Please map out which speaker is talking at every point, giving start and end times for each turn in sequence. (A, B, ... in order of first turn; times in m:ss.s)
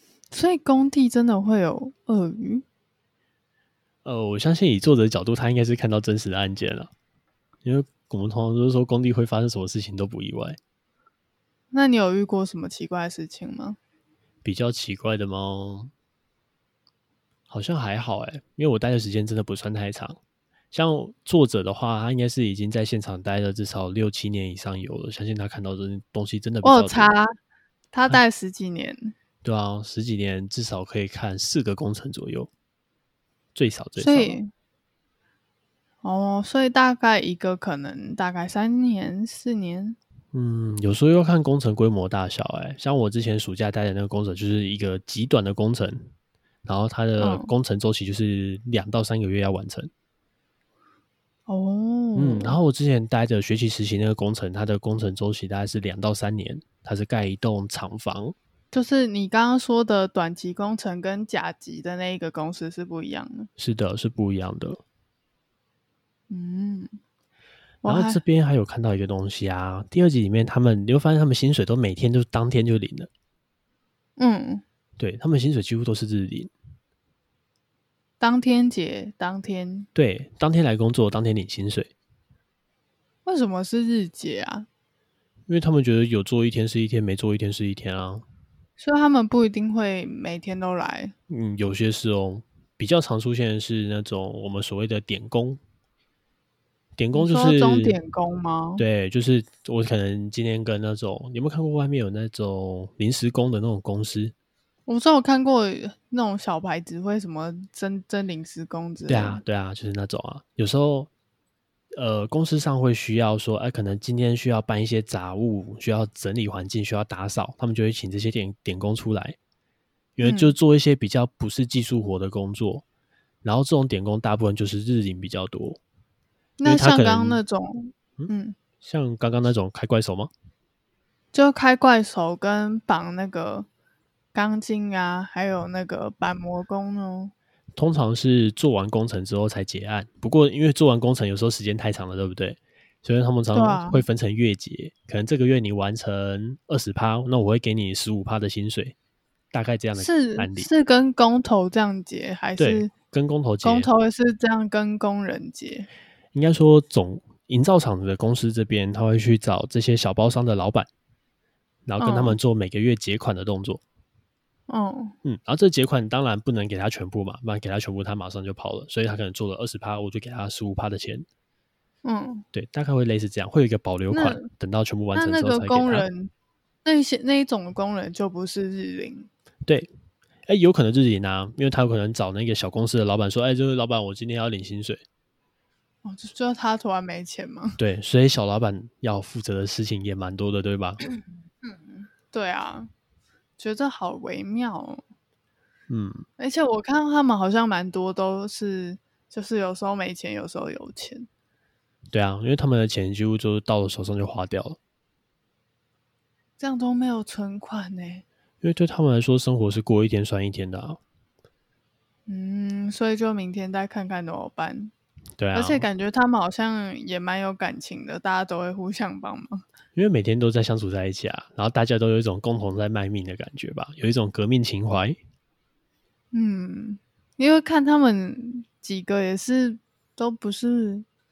0:00.3-0:02.6 A
0:04.0-0:06.9 B
0:07.6-0:10.6 B
0:11.7-0:13.8 A
0:14.4-0:15.9 B
0:17.5-0:20.2 B
0:20.7-0:27.1 B
0:26.6-0:27.3 A
0:27.9-0:29.1 A
0:29.4-0:32.5 B
0:33.5-0:34.4 B
0:34.0-0:34.5 A
0:36.0-0:40.0 A
0:40.3-0:46.1 B
0:46.6-0:49.9 B
0:47.2-0:47.5 A
0:51.5-0:52.6 A
0:52.2-0:58.4 B
0:58.7-1:03.5 A
1:03.6-1:04.8 B
1:06.3-1:07.0 A
1:07.8-1:08.2 A
1:07.8-1:13.1 B
1:14.2-1:14.6 A
1:15.0-1:16.5 B
1:18.2-1:19.9 A
1:19.9-1:21.9 B
1:23.2-1:24.7 A
1:25.5-1:28.2 B
1:28.8-1:31.1 A
1:31.3-1:35.6 B
1:37.0-1:38.0 B
1:37.1-1:38.8 A
1:38.8-1:44.3 B
1:44.9-1:49.4 A
1:49.1-1:51.1 B
1:51.9-1:59.4 B
2:00.2-2:02.8 B
2:00.2-2:00.5 A
2:03.4-2:05.8 B
2:06.6-2:08.6 A
2:06.6-2:07.4 B
2:08.8-2:10.3 B
2:11.3-2:13.7 A
2:14.3-2:17.3 A
2:17.8-2:28.9 B
2:23.5-2:24.0 A
2:29.5-2:30.7 B
2:30.0-2:32.9 A
2:32.6-2:33.9 B
2:33.6-2:35.9 A
2:36.3-2:40.9 B
2:41.8-2:43.8 B
2:42.0-2:42.4 A
2:44.7-2:45.1 A
2:45.2-2:51.2 B
2:52.0-2:52.4 A
2:52.5-2:56.1 B
2:54.1-2:54.5 A
2:55.1-2:56.3 A
2:56.8-2:59.3 A
3:00.5-3:05.0 B
3:06.0-3:07.8 A
3:07.8-3:11.0 B
3:11.6-3:12.9 A
3:13.6-3:15.0 A
3:15.9-3:16.2 B
3:16.4-3:21.3 A
3:22.1-3:24.8 B
3:26.6-3:28.2 A
3:28.6-3:31.0 B
3:32.3-3:34.9 A
3:35.4-3:35.8 B
3:35.5-3:39.6 A
3:39.9-3:45.2 B
3:46.3-3:51.0 A